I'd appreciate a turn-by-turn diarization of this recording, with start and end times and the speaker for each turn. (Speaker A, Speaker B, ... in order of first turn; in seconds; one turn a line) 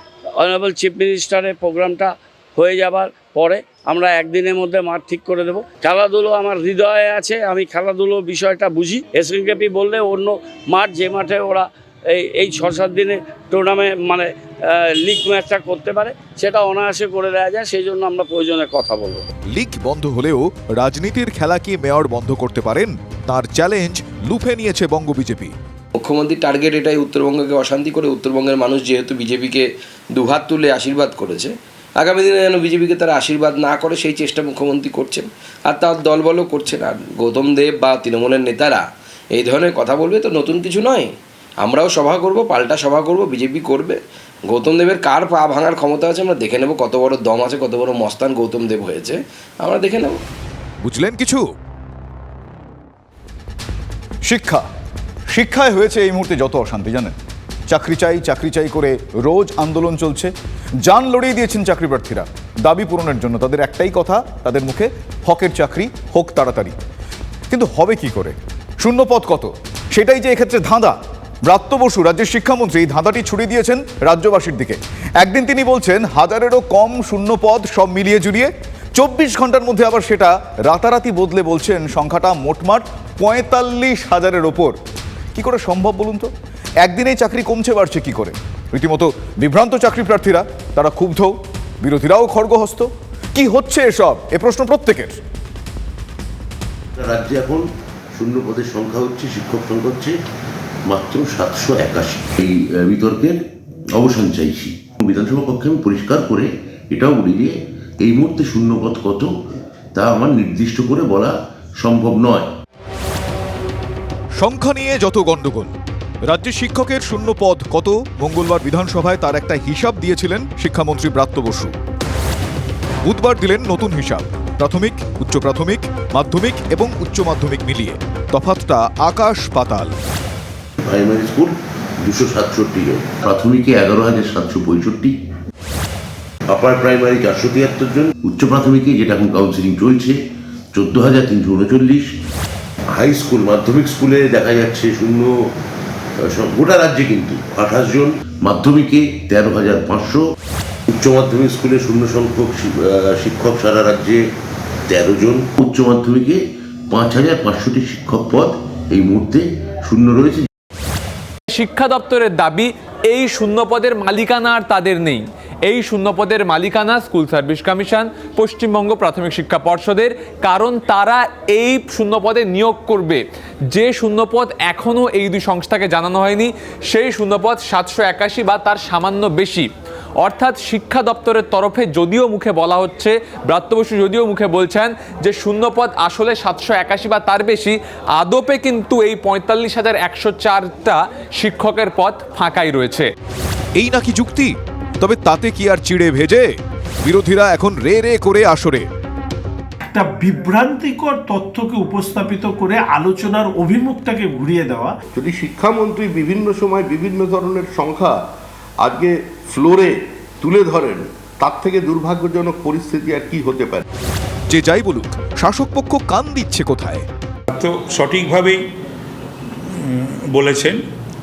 Speaker A: 0.4-19.2
Speaker B: 19.5-25.5
Speaker C: 26.0-38.8
Speaker C: 39.3-41.1
Speaker C: 41.6-44.0
Speaker C: 44.5-50.2
Speaker B: 50.8-51.4
Speaker B: 54.2-54.7
Speaker B: 55.3-57.1
Speaker B: 57.7-66.8
Speaker B: 67.5-84.8
Speaker B: 85.3-86.3
Speaker B: 86.8-95.2
Speaker D: 97.0-97.6
Speaker D: 98.2-100.1
Speaker D: 100.9-103.4
Speaker D: 103.9-109.3
Speaker D: 109.9-112.5
Speaker B: 114.4-115.7
Speaker B: 116.2-121.7
Speaker B: 123.0-129.9
Speaker D: 130.8-135.1
Speaker D: 136.5-140.2
Speaker D: 140.7-142.1
Speaker D: 142.9-145.4
Speaker D: 146.2-150.2
Speaker D: 150.9-154.2
Speaker D: 154.9-160.4
Speaker E: 161.5-179.7
Speaker E: 180.2-193.1
Speaker B: 193.8-196.5
Speaker B: 197.0-198.8
Speaker F: 199.8-204.9
Speaker G: 205.1-208.2
Speaker G: 208.8-213.8
Speaker B: 214.5-217.1
Speaker H: 217.5-218.6
Speaker H: 219.7-220.8